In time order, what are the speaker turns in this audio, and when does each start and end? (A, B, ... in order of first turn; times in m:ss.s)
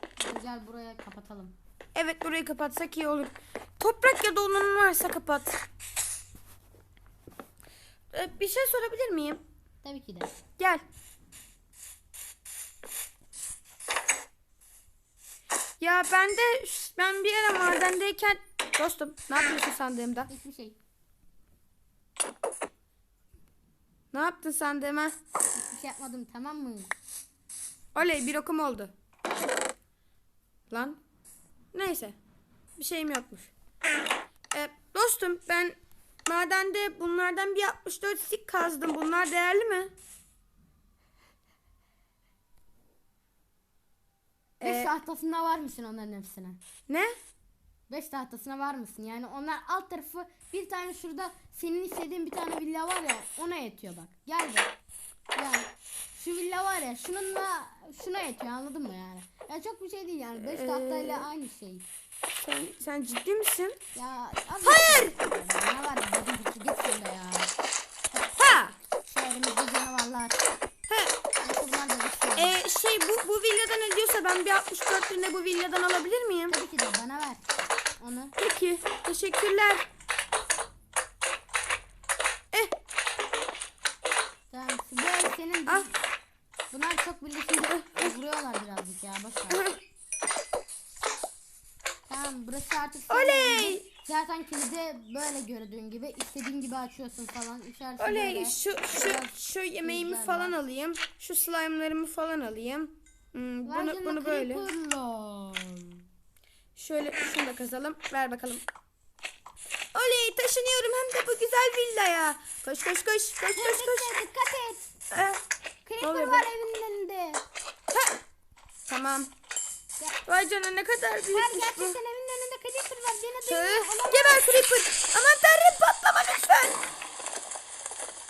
0:00.2-0:01.6 A
0:01.9-0:05.6 B
0:08.1-0:09.4 B
0:09.8-0:10.3 A
0:10.6-0:10.8 B
0:15.8-0:20.3 B
0:20.3-0:20.8 A
0:24.1-0:25.1 B
0:25.5-0:26.9 A
0:27.9-0:28.9 B
0:30.7-0:31.0 B
0:31.7-0:32.2 B
0:32.8-0:33.5 B
0:34.5-0:39.9 B
0:44.6-0:44.9 B
0:44.6-0:46.6 A
0:46.9-0:47.1 B
0:47.9-0:54.7 A
0:55.3-1:01.8 A
1:00.4-1:01.3 B
1:02.4-1:03.8 B
1:03.9-1:07.5 A
1:04.6-1:05.2 B
1:08.3-1:08.8 B
1:09.0-1:10.4 A
1:10.9-1:11.2 B
1:11.4-1:12.6 A
1:12.4-1:16.6 B
1:16.5-1:17.4 A
1:18.0-1:18.4 A
1:18.4-1:19.8 B
1:24.5-1:26.0 A
1:26.7-1:29.7 A
1:27.7-1:28.1 B
1:29.5-1:29.8 B
1:32.1-1:40.6 A
1:33.1-1:33.8 B
1:38.0-1:44.6 B
1:43.6-1:46.0 A
1:46.8-1:48.6 B
1:49.9-1:54.1 B
1:53.6-1:54.8 A
1:55.1-1:55.4 B
1:55.8-1:57.4 A
1:56.0-1:56.4 B
1:58.9-1:59.3 B
2:00.2-2:02.0 B
2:01.3-2:04.5 A
2:03.4-2:06.8 B